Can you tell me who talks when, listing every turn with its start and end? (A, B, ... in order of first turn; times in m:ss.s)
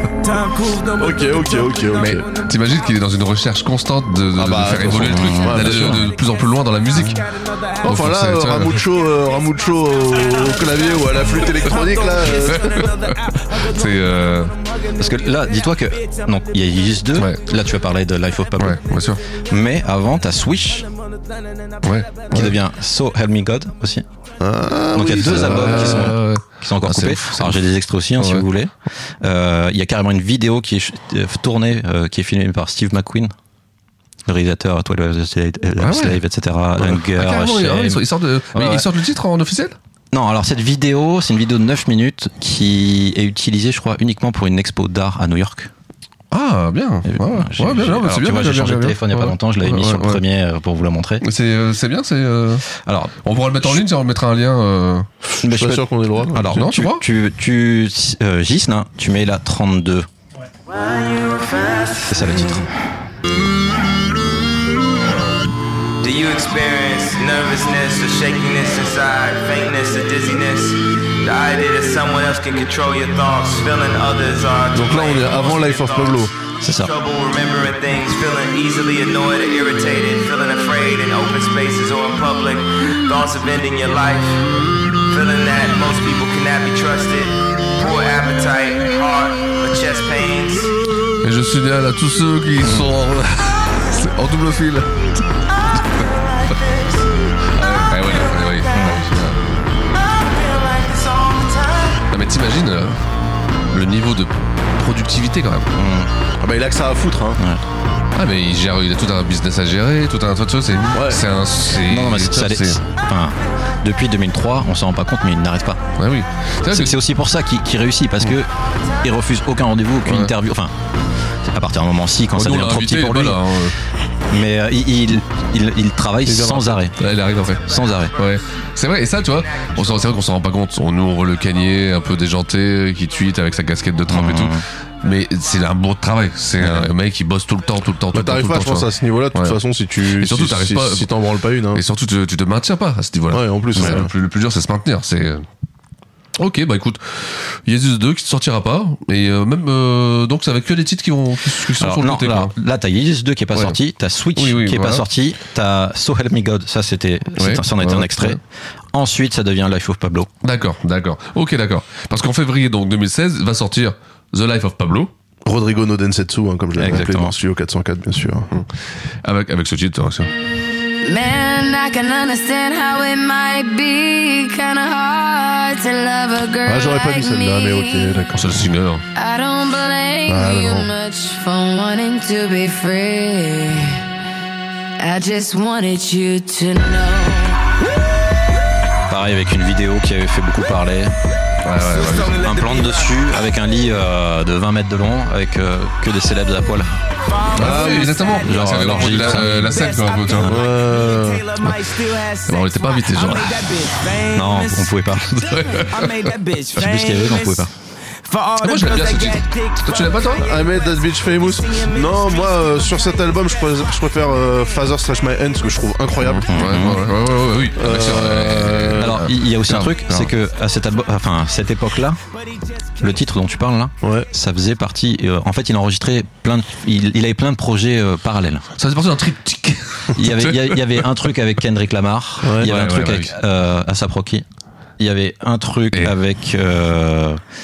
0:00.2-0:02.9 A
0:01.0-0:02.2 B
0:02.0-0:07.2 C
0:04.4-0:06.1 B
0:04.9-0:06.0 D
0:06.2-0:06.5 A
0:07.0-0:07.2 D
0:07.0-0:07.9 A
0:07.8-0:12.7 B
0:07.8-0:08.8 C
0:09.0-0:16.3 A
0:12.5-0:12.9 C
0:13.6-0:14.5 C
0:15.0-0:18.8 D
0:18.6-0:19.2 C
0:19.5-0:20.8 D
0:20.9-0:22.2 A
0:21.8-0:22.6 C
0:22.3-0:24.0 D
0:24.4-0:26.1 B
0:24.9-0:33.3 D
0:25.2-0:28.4 C
0:34.2-0:38.0 D
0:35.8-0:36.2 C
0:36.8-0:39.8 C
0:38.5-0:38.8 D
0:40.1-0:45.7 D
0:46.3-0:50.2 C
0:47.0-0:51.2 D
0:51.2-0:52.7 C
0:52.8-0:53.1 D
0:53.2-0:55.1 C
0:55.4-1:00.1 D
0:55.4-0:56.6 B
0:56.5-0:57.0 C
1:00.7-1:02.2 A
1:02.1-1:02.6 D
1:06.0-1:24.4 A
1:14.7-1:16.3 B
1:16.6-1:16.9 D
1:25.1-1:30.7 A
1:31.2-1:35.2 C
1:32.6-1:32.9 D
1:35.5-1:39.0 A
1:37.5-1:39.4 C
1:38.7-1:39.0 D
1:39.9-1:42.0 A
1:42.1-1:43.0 C
1:43.7-1:45.7 C
1:45.7-1:46.1 D
1:46.4-1:47.4 B
1:47.4-1:47.6 D
1:48.1-1:52.8 C
1:50.9-1:51.2 B
1:51.9-1:55.8 D
1:56.0-1:57.0 C
1:56.7-1:58.5 D
1:59.0-2:00.7 D
2:00.0-2:00.3 C
2:01.4-2:03.4 D
2:02.3-2:03.8 C
2:04.3-2:07.0 D
2:06.2-2:06.8 B
2:07.0-2:25.4 C
2:07.7-2:08.1 D
2:09.5-2:10.1 A
2:14.1-2:14.6 D
2:18.1-2:21.8 B
2:23.3-2:24.1 B
2:26.4-2:32.5 C
2:31.8-2:38.4 D
2:34.4-2:35.0 C
2:37.4-2:38.4 C
2:38.9-2:40.3 D
2:40.4-2:45.1 C
2:45.4-2:48.5 B
2:46.8-2:47.4 D
2:49.2-2:50.3 C
2:51.0-2:58.2 E
2:56.6-2:58.7 B
2:58.3-2:59.0 C
2:59.1-3:04.0 E
3:00.3-3:00.9 B
3:05.0-3:07.6 E
3:09.1-3:11.1 D
3:11.6-3:12.4 C
3:11.8-3:13.1 A
3:12.3-3:16.9 D
3:17.2-3:27.7 A
3:17.5-3:20.6 C
3:17.5-3:18.1 B
3:18.4-3:19.8 D
3:20.5-3:21.5 B
3:22.5-3:23.8 C
3:24.3-3:25.6 D
3:25.5-3:26.2 C
3:26.8-3:27.7 D
3:28.2-3:33.6 A
3:28.6-3:30.4 C
3:30.4-3:36.5 B
3:36.2-3:40.3 C
3:36.5-3:37.1 D
3:37.7-3:39.2 B
3:39.0-3:42.2 D
3:43.0-3:48.7 D
3:44.0-3:44.3 B
3:48.8-3:51.0 C
3:50.1-3:54.4 D
3:52.4-3:52.7 B
3:52.6-3:53.3 C
3:55.0-3:57.4 D